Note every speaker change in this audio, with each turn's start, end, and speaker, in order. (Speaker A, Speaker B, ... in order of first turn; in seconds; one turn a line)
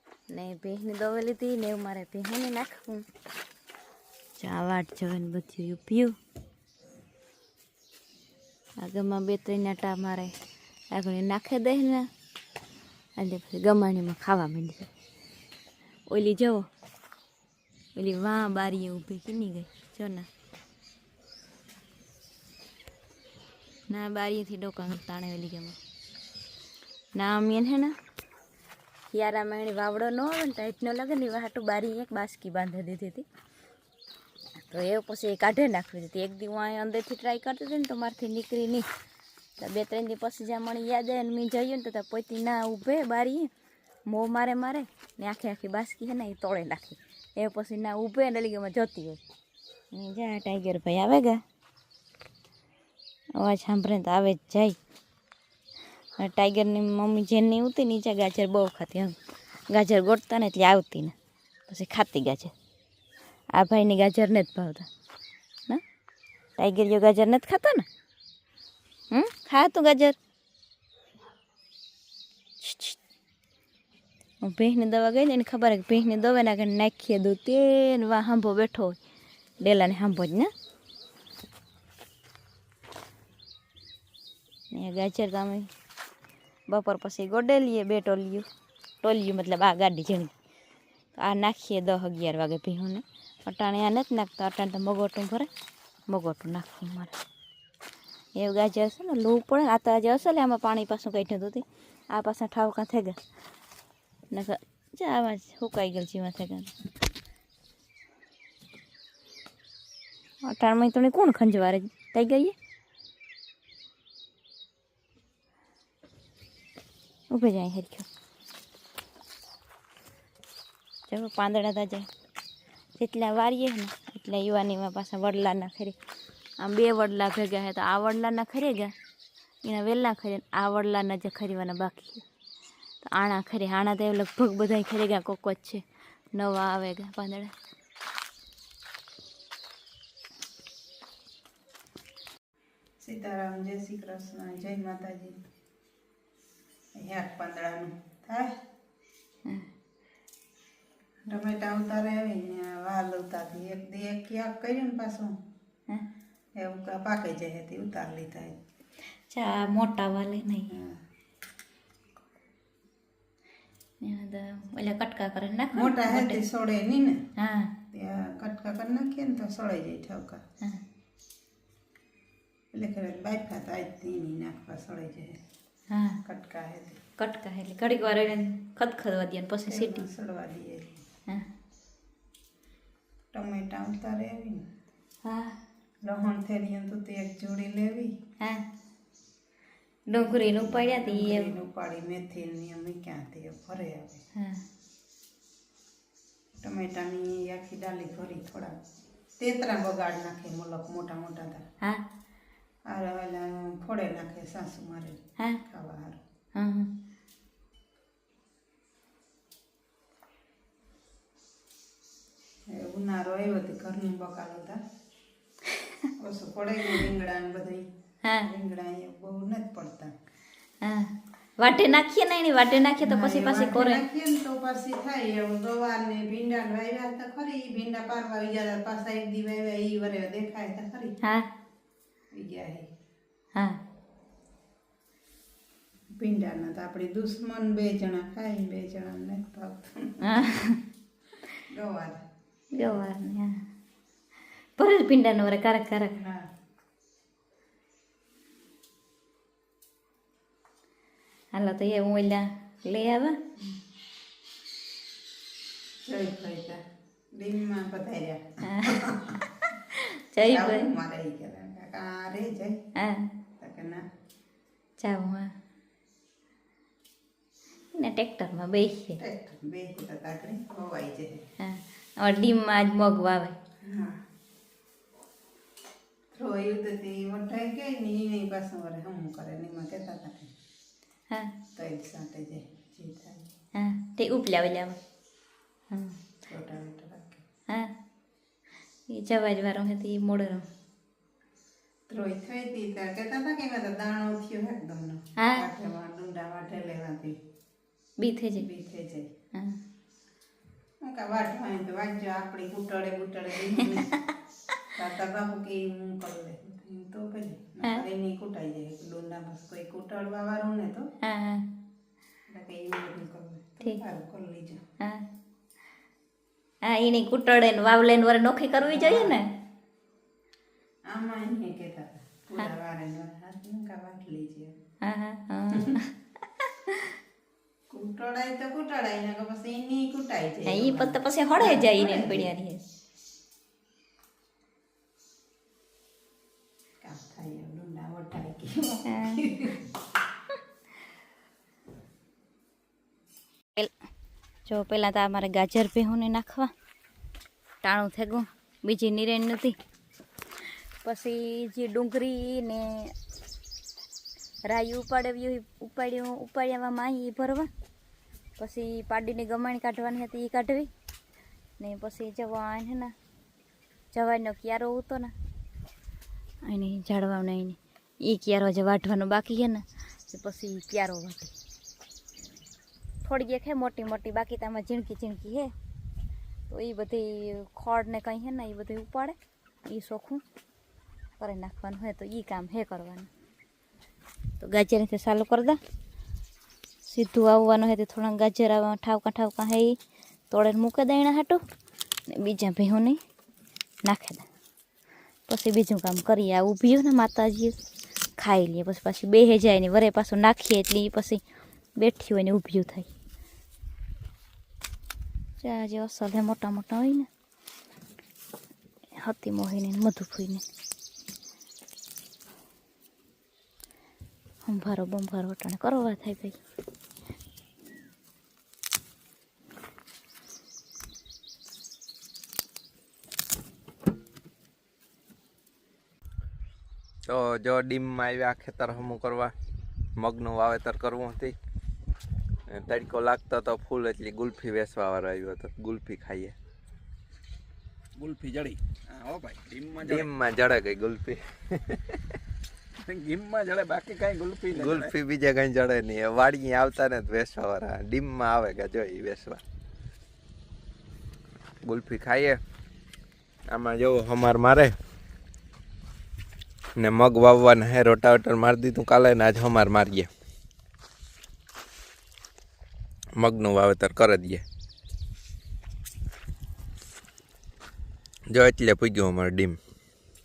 Speaker A: 0.3-3.1
Speaker A: 4.4-6.1
Speaker A: 8.8-10.3
Speaker A: 10.9-12.1
Speaker A: 13.2-14.9
Speaker A: 16.1-16.7
Speaker A: 17.9-20.3
Speaker A: 23.9-25.8
Speaker A: 27.2-27.9
Speaker A: 29.1-33.2
Speaker A: 34.6-38.9
Speaker A: 39.6-43.5
Speaker A: 44.1-49.2
Speaker A: 49.9-51.4
Speaker A: 53.4-54.8
Speaker A: 56.2-59.2
Speaker A: 59.7-61.1
Speaker A: 61.7-62.5
Speaker A: 63.5-64.9
Speaker A: 66.6-67.9
Speaker A: 69.1-70.2
Speaker A: 72.6-73.0
Speaker A: 74.4-79.0
Speaker A: 79.6-80.5
Speaker A: 84.7-85.7
Speaker A: 86.7-88.5
Speaker A: 89.0-90.3
Speaker A: 91.2-95.5
Speaker A: 96.1-97.1
Speaker A: 98.4-103.2
Speaker A: 104.3-106.7
Speaker A: 110.5-112.5
Speaker A: 117.3-118.1
Speaker A: 121.1-122.1
Speaker A: 123.0-126.0
Speaker A: 126.6-128.9
Speaker A: 129.6-132.2
Speaker A: 133.0-137.5
Speaker B: 143.0-145.4
Speaker B: 147.0-148.5
Speaker B: 151.3-155.3
Speaker B: 156.6-158.6
Speaker A: 159.3-160.7
Speaker B: 160.7-161.0
Speaker A: 164.0-166.4
Speaker B: 165.8-167.2
Speaker A: 167.4-167.7
Speaker B: 167.9-170.4
Speaker B: 172.7-175.4
Speaker A: 175.9-176.2
Speaker B: 176.2-177.0
Speaker A: 177.2-180.1
Speaker B: 179.7-181.0
Speaker B: 183.3-184.6
Speaker A: 185.2-185.6
Speaker B: 186.0-188.1
Speaker A: 190.1-191.5
Speaker B: 190.3-194.2
Speaker A: 194.4-194.6
Speaker B: 196.6-198.8
Speaker B: 199.4-201.6
Speaker B: 202.9-206.2
Speaker A: 206.6-206.9
Speaker B: 212.7-214.8
Speaker B: 216.2-217.8
Speaker B: 218.4-220.1
Speaker A: 220.8-224.0
Speaker B: 223.0-231.1
Speaker B: 232.3-232.9
Speaker B: 236.2-240.5
Speaker A: 240.3-240.8
Speaker B: 241.7-242.2
Speaker A: 242.8-243.6
Speaker A: 244.8-246.2
Speaker B: 246.2-246.4
Speaker A: 251.5-253.4
Speaker B: 256.1-256.8
Speaker B: 257.4-259.2
Speaker A: 258.6-259.0
Speaker A: 259.9-260.9
Speaker B: 260.4-262.8
Speaker A: 263.0-263.3
Speaker B: 263.6-264.0
Speaker A: 265.0-265.5
Speaker A: 267.9-269.2
Speaker B: 269.2-271.4
Speaker A: 271.6-273.5
Speaker B: 273.8-274.2
Speaker B: 276.3-280.5
Speaker B: 281.8-283.5
Speaker A: 283.8-285.0
Speaker A: 285.9-286.2
Speaker B: 286.5-287.4
Speaker A: 289.1-290.7
Speaker B: 292.1-297.4
Speaker A: 295.4-295.6
Speaker A: 298.2-298.6
Speaker B: 298.6-299.3
Speaker B: 301.0-304.1
Speaker B: 305.0-311.1
Speaker A: 311.2-311.6
Speaker B: 312.5-314.8
Speaker A: 316.9-319.5
Speaker B: 318.8-319.4
Speaker B: 321.1-324.7
Speaker A: 325.0-326.1
Speaker A: 326.6-327.1
Speaker B: 327.9-332.5
Speaker A: 330.7-332.8
Speaker B: 337.0-339.8
Speaker A: 339.1-339.4
Speaker A: 344.7-346.7
Speaker A: 347.8-349.8
Speaker A: 351.0-353.1
Speaker A: 354.7-357.7
Speaker A: 358.6-360.9
Speaker A: 361.8-363.1
Speaker A: 364.1-365.3
Speaker A: 366.6-371.5
Speaker A: 373.2-375.7
Speaker A: 376.7-379.4
Speaker A: 379.9-380.4
Speaker A: 381.4-383.3
Speaker A: 384.6-385.8
Speaker A: 387.1-390.0
Speaker A: 390.5-391.6
Speaker A: 392.3-393.2
Speaker A: 394.1-394.4
Speaker A: 395.5-397.8
Speaker A: 398.4-401.4
Speaker A: 402.0-403.1
Speaker A: 405.6-407.3
Speaker A: 409.2-410.6
Speaker A: 414.7-416.6
Speaker C: 427.3-429.5
Speaker C: 430.2-431.6
Speaker C: 432.7-436.6
Speaker D: 438.2-440.3
Speaker C: 440.0-442.2
Speaker D: 443.1-445.1
Speaker C: 444.8-449.6
Speaker C: 451.8-452.6
Speaker C: 453.7-454.9
Speaker C: 457.0-460.3
Speaker C: 463.4-464.6
Speaker C: 468.5-469.8